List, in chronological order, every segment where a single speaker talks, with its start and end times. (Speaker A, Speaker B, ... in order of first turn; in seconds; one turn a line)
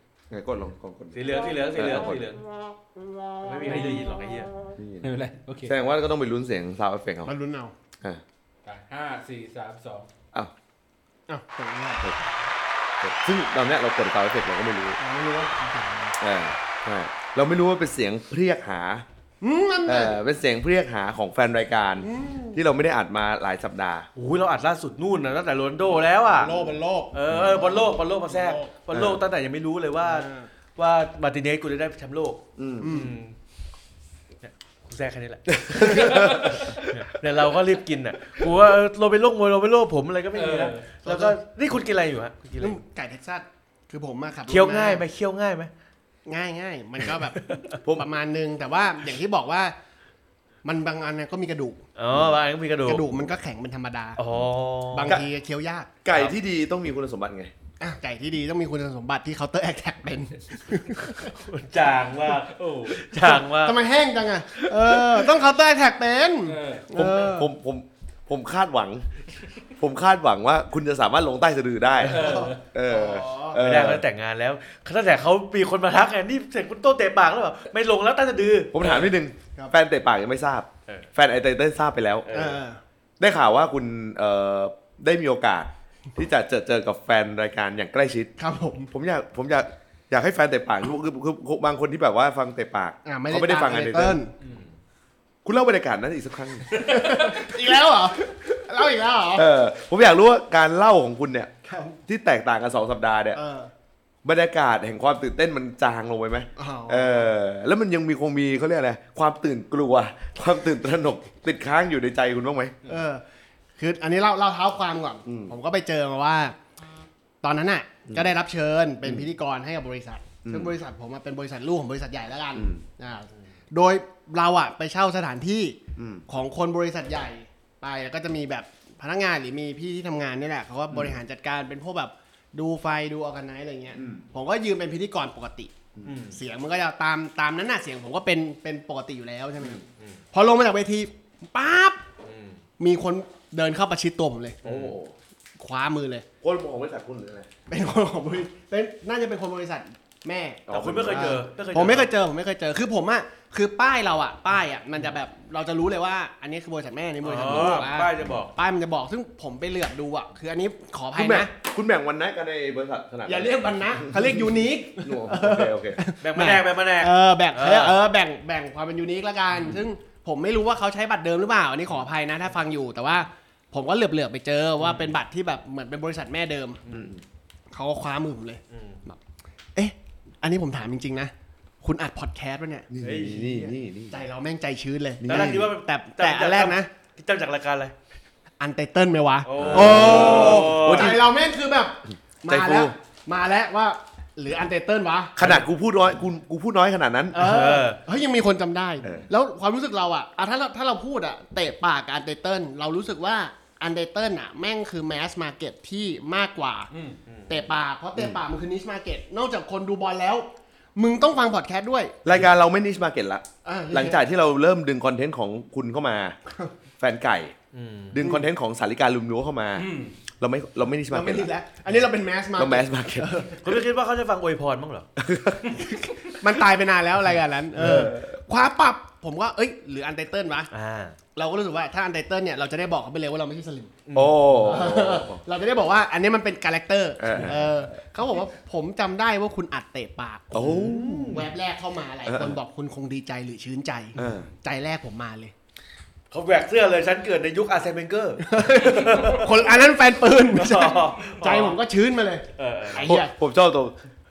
Speaker A: 0.3-2.2
Speaker B: 1.1-2.4
Speaker B: 3.4-4.5
Speaker C: 3.6-4.0
Speaker A: 4.8-5.1
Speaker C: 5.0-5.7
Speaker A: 5.7-7.3
Speaker D: 7.2-7.7
Speaker C: 8.6-10.1
Speaker D: 11.3-12.2
Speaker A: 13.0-15.0
Speaker D: 15.0-16.2
Speaker A: 16.2-19.0
Speaker D: 19.4-20.1
Speaker A: 19.9-24.1
Speaker D: 22.0-22.6
Speaker B: 24.1-33.3
Speaker D: 26.3-28.7
Speaker A: 27.3-27.6
Speaker A: 28.9-29.2
Speaker D: 30.0-30.5
Speaker A: 32.6-32.9
Speaker D: 32.8-33.1
Speaker B: 34.4-42.8
Speaker A: 35.6-36.9
Speaker C: 35.9-36.6
Speaker C: 40.3-40.8
Speaker D: 41.0-41.4
Speaker D: 42.6-45.0
Speaker B: 44.5-45.7
Speaker D: 46.3-49.7
Speaker B: 47.4-47.6
Speaker D: 50.6-51.8
Speaker B: 52.0-53.0
Speaker D: 52.8-54.2
Speaker B: 54.2-55.1
Speaker D: 54.9-55.9
Speaker A: 56.0-57.5
Speaker D: 57.8-61.3
Speaker B: 61.2-63.8
Speaker C: 62.5-63.0
Speaker D: 63.2-67.5
Speaker C: 66.4-66.9
Speaker A: 66.9-69.0
Speaker A: 69.8-74.0
Speaker B: 72.0-72.3
Speaker C: 72.0-72.6
Speaker D: 72.1-73.6
Speaker B: 73.6-79.1
Speaker A: 78.7-82.2
Speaker B: 82.2-82.6
Speaker D: 82.3-82.8
Speaker A: 83.2-88.3
Speaker D: 88.4-88.9
Speaker A: 88.9-94.2
Speaker D: 93.0-94.3
Speaker A: 95.4-96.8
Speaker D: 96.7-99.5
Speaker C: 97.0-97.3
Speaker A: 99.3-101.5
Speaker D: 101.6-102.0
Speaker A: 102.1-103.4
Speaker D: 103.3-103.7
Speaker A: 104.2-112.7
Speaker D: 106.5-107.3
Speaker D: 112.9-113.2
Speaker D: 113.8-116.5
Speaker A: 115.2-115.5
Speaker D: 117.4-125.8
Speaker A: 120.4-120.7
Speaker A: 122.5-122.8
Speaker A: 126.0-126.2
Speaker D: 126.3-135.7
Speaker A: 130.9-131.2
Speaker A: 133.9-134.2
Speaker B: 136.0-136.4
Speaker D: 136.3-139.8
Speaker B: 139.8-140.2
Speaker D: 140.3-142.0
Speaker B: 142.2-142.6
Speaker D: 142.8-144.6
Speaker B: 144.6-144.9
Speaker A: 144.6-145.1
Speaker D: 145.6-146.2
Speaker A: 146.4-147.5
Speaker D: 147.7-161.5
Speaker A: 150.7-151.3
Speaker B: 150.7-152.1
Speaker B: 157.2-158.5
Speaker A: 161.2-164.4
Speaker D: 163.2-176.8
Speaker A: 165.0-166.0
Speaker B: 166.2-167.9
Speaker B: 174.8-175.1
Speaker B: 176.8-177.1
Speaker A: 176.9-177.2
Speaker D: 177.7-179.2
Speaker B: 178.7-179.0
Speaker D: 179.8-182.9
Speaker A: 182.9-184.2
Speaker B: 183.0-183.7
Speaker D: 184.1-186.9
Speaker A: 185.2-185.7
Speaker B: 185.3-187.9
Speaker D: 188.6-195.4
Speaker B: 189.4-191.2
Speaker A: 189.6-191.2
Speaker A: 192.5-192.9
Speaker A: 195.4-197.5
Speaker D: 197.3-206.9
Speaker B: 197.4-198.0
Speaker A: 199.0-199.3
Speaker C: 206.9-207.2
Speaker B: 207.3-207.7
Speaker D: 207.5-212.2
Speaker A: 212.2-216.3
Speaker D: 213.6-214.2
Speaker A: 217.0-217.5
Speaker B: 217.7-218.2
Speaker A: 218.1-219.9
Speaker C: 219.8-220.1
Speaker A: 220.4-221.5
Speaker D: 221.1-223.6
Speaker A: 222.6-223.4
Speaker B: 223.6-225.1
Speaker A: 225.2-225.9
Speaker D: 225.9-230.7
Speaker A: 227.7-228.4
Speaker B: 230.7-231.2
Speaker D: 231.3-233.9
Speaker B: 234.1-234.4
Speaker A: 234.1-235.4
Speaker D: 234.6-245.5
Speaker A: 237.2-237.8
Speaker A: 240.5-241.3
Speaker B: 240.6-241.5
Speaker A: 242.3-242.5
Speaker A: 244.2-244.5
Speaker B: 246.3-249.4
Speaker D: 248.4-253.3
Speaker C: 249.0-249.6
Speaker B: 250.4-251.8
Speaker B: 252.6-253.1
Speaker A: 253.1-253.9